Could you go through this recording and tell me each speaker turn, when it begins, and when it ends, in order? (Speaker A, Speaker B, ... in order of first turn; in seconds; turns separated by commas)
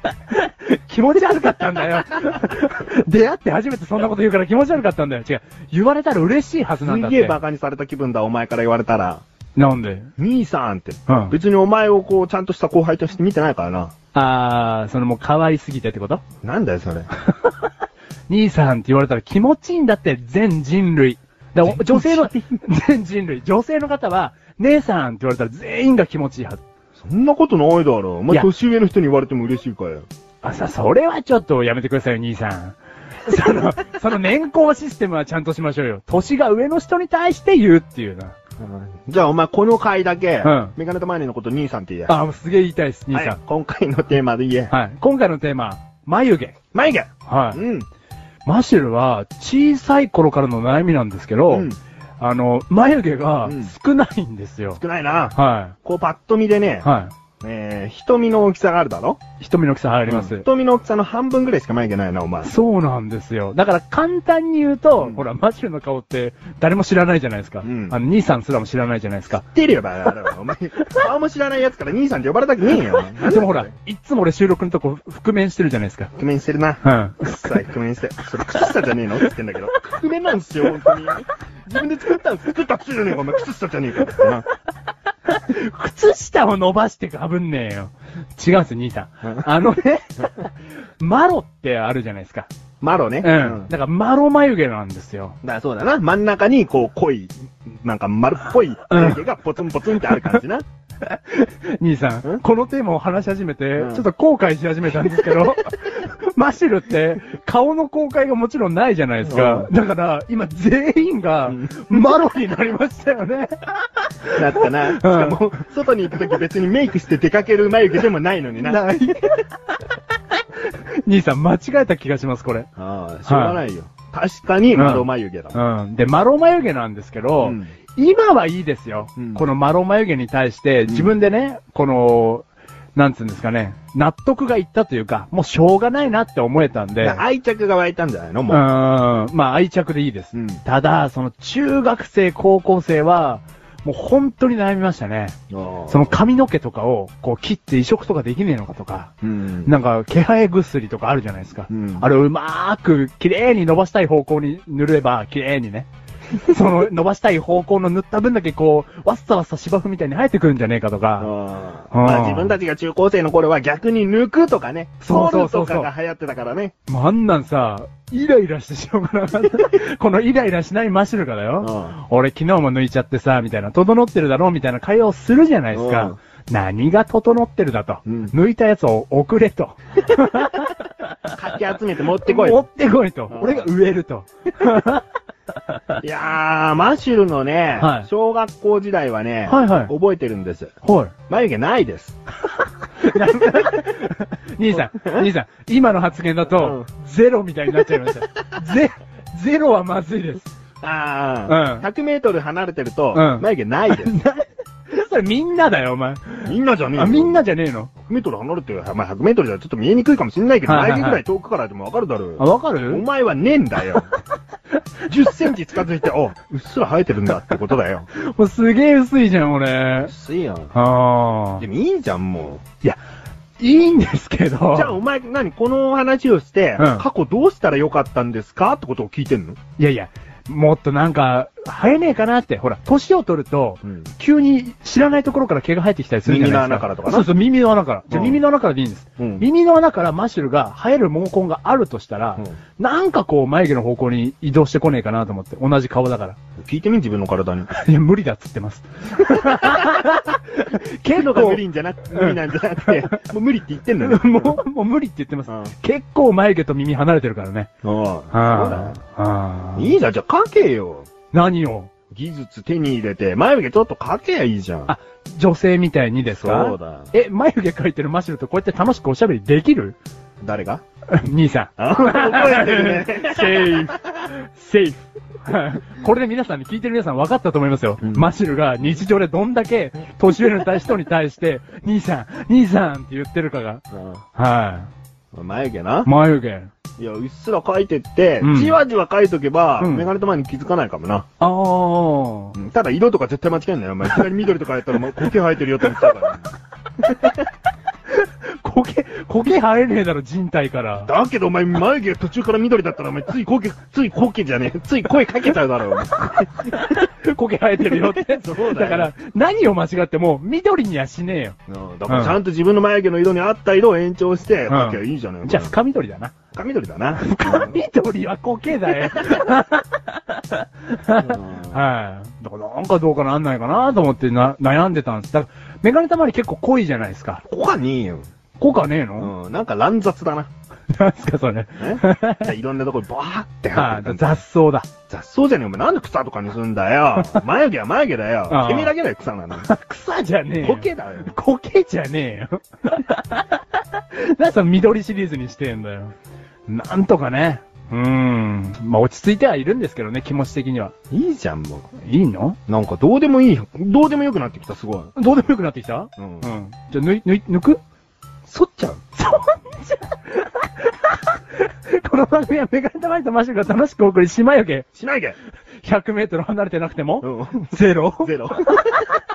Speaker A: 0.3-7.4, Speaker B: 6.8-9.2, Speaker A: 9.6-10.1, Speaker B: 10.2-13.9, Speaker A: 11.1-11.3, Speaker A: 14.1-16.2, Speaker B: 16.4-17.1, Speaker A: 18.3-26.6, Speaker B: 21.6-22.5, Speaker B: 27.0-30.1, Speaker A: 30.4-38.4, Speaker B: 38.6-42.1, Speaker A: 40.4-40.7, Speaker A: 42.1-43.4, Speaker B: 43.1-44.7, Speaker A: 44.7-46.6, Speaker B: 46.7-47.9, Speaker A: 47.3-47.6, Speaker A: 48.5-51.7, Speaker B: 51.5-51.8, Speaker A: 52.2-54.8, Speaker B: 53.5-53.7, Speaker B: 54.7-56.9, Speaker A: 55.3-55.8, Speaker A: 56.8-57.1, Speaker B: 57.4-59.2, Speaker A: 59.4-60.5, Speaker B: 60.0-62.5, Speaker A: 62.4-69.4, Speaker B: 67.6-68.0, Speaker B: 69.5-73.7, Speaker A: 73.2-76.1, Speaker B: 76.2-84.5, Speaker A: 76.8-77.6, Speaker A: 85.3-92.5, Speaker B: 92.8-93.7, Speaker A: 93.2-95.4, Speaker B: 95.4-100.7, Speaker A: 98.9-99.2, Speaker A: 100.1-100.4, Speaker A: 101.0-115.4, Speaker B: 103.8-104.0, Speaker B: 109.3-109.7, Speaker B: 111.5-112.0, Speaker B: 114.3-118.8, Speaker A: 118.6-119.5, Speaker A: 120.5-122.7, Speaker B: 122.8-125.6, Speaker A: 123.3-123.6, Speaker A: 124.7-137.2, Speaker B: 127.4-127.7, Speaker B: 129.2-129.4, Speaker B: 137.0-138.6, Speaker A: 138.5-145.4, Speaker B: 140.3-140.6, Speaker B: 145.5-146.2, Speaker A: 145.9-149.1, Speaker B: 149.2-149.7, Speaker A: 149.7-161.3, Speaker B: 151.7-152.1, Speaker B: 161.2-166.7, Speaker A: 161.9-162.6, Speaker A: 165.0-165.9, Speaker A: 166.9-180.9, Speaker B: 171.6-172.0, Speaker B: 175.7-176.2, Speaker B: 178.1-178.3, Speaker B: 181.3-182.7, Speaker A: 182.2-185.1, Speaker B: 183.3-183.7, Speaker B: 186.0-190.7, Speaker A: 187.8-188.1, Speaker A: 189.5-189.9, Speaker A: 190.8-191.1, Speaker B: 191.3-192.2, Speaker A: 193.0-200.5, Speaker B: 193.4-193.8, Speaker B: 194.7-195.3, Speaker B: 196.6-196.8, Speaker B: 200.8-204.2, Speaker A: 201.5-201.9, Speaker A: 203.1-207.9, Speaker B: 206.4-207.4, Speaker B: 208.1-214.1, Speaker A: 210.7-211.2, Speaker A: 212.4-213.0, Speaker B: 215.1-218.1, Speaker A: 218.1-220.1, Speaker B: 220.1-220.7, Speaker A: 220.7-221.6, Speaker B: 221.6-222.6, Speaker A: 223.6-225.0, Speaker B: 224.7-229.6, Speaker A: 226.8-227.1, Speaker A: 229.8-246.4, Speaker B: 236.2-237.3, Speaker B: 238.1-238.4, Speaker B: 239.2-239.5, Speaker B: 246.6-247.7, Speaker A: 247.7-251.6, Speaker B: 249.3-249.9, Speaker B: 251.1-254.6, Speaker A: 252.1-253.2, Speaker A: 254.0-257.7, Speaker B: 255.5-255.7, Speaker B: 257.8-259.0, Speaker A: 258.3-259.9, Speaker B: 259.8-261.1, Speaker A: 261.3-261.9, Speaker B: 262.1-264.9, Speaker A: 264.9-270.0, Speaker B: 266.3-267.1, Speaker B: 270.4-270.8, Speaker A: 271.1-283.8, Speaker B: 271.8-274.0, Speaker B: 278.0-278.3, Speaker B: 283.9-284.2, Speaker A: 284.4-284.9, Speaker B: 285.3-286.1, Speaker A: 286.1-286.7, Speaker B: 287.0-291.3, Speaker A: 288.4-288.8, Speaker A: 289.8-290.1, Speaker A: 291.4-292.6, Speaker B: 292.6-296.5, Speaker A: 298.1-301.1, Speaker B: 301.1-306.8, Speaker A: 306.6-311.6, Speaker B: 307.9-309.1, Speaker B: 311.7-315.7, Speaker A: 312.1-312.4, Speaker A: 314.7-316.4, Speaker B: 316.5-317.8, Speaker A: 317.2-327.4, Speaker B: 319.0-319.4, Speaker B: 321.2-321.8, Speaker B: 327.5-328.3, Speaker A: 328.6-329.3, Speaker B: 329.2-330.5, Speaker A: 330.9-332.5, Speaker B: 331.8-334.4, Speaker A: 333.8-334.9, Speaker B: 335.1-339.7, Speaker A: 338.5-338.9, Speaker A: 339.5-346.1, Speaker B: 340.6-341.3, Speaker A: 346.7-350.9, Speaker B: 351.1-351.9, Speaker A: 352.0-352.6, Speaker B: 352.7-355.1, Speaker A: 355.1-357.8, Speaker B: 356.2-356.5, Speaker B: 358.5-359.0, Speaker A: 359.1-364.9, Speaker B: 364.9-365.4, Speaker A: 365.8-368.4, Speaker B: 367.2-369.0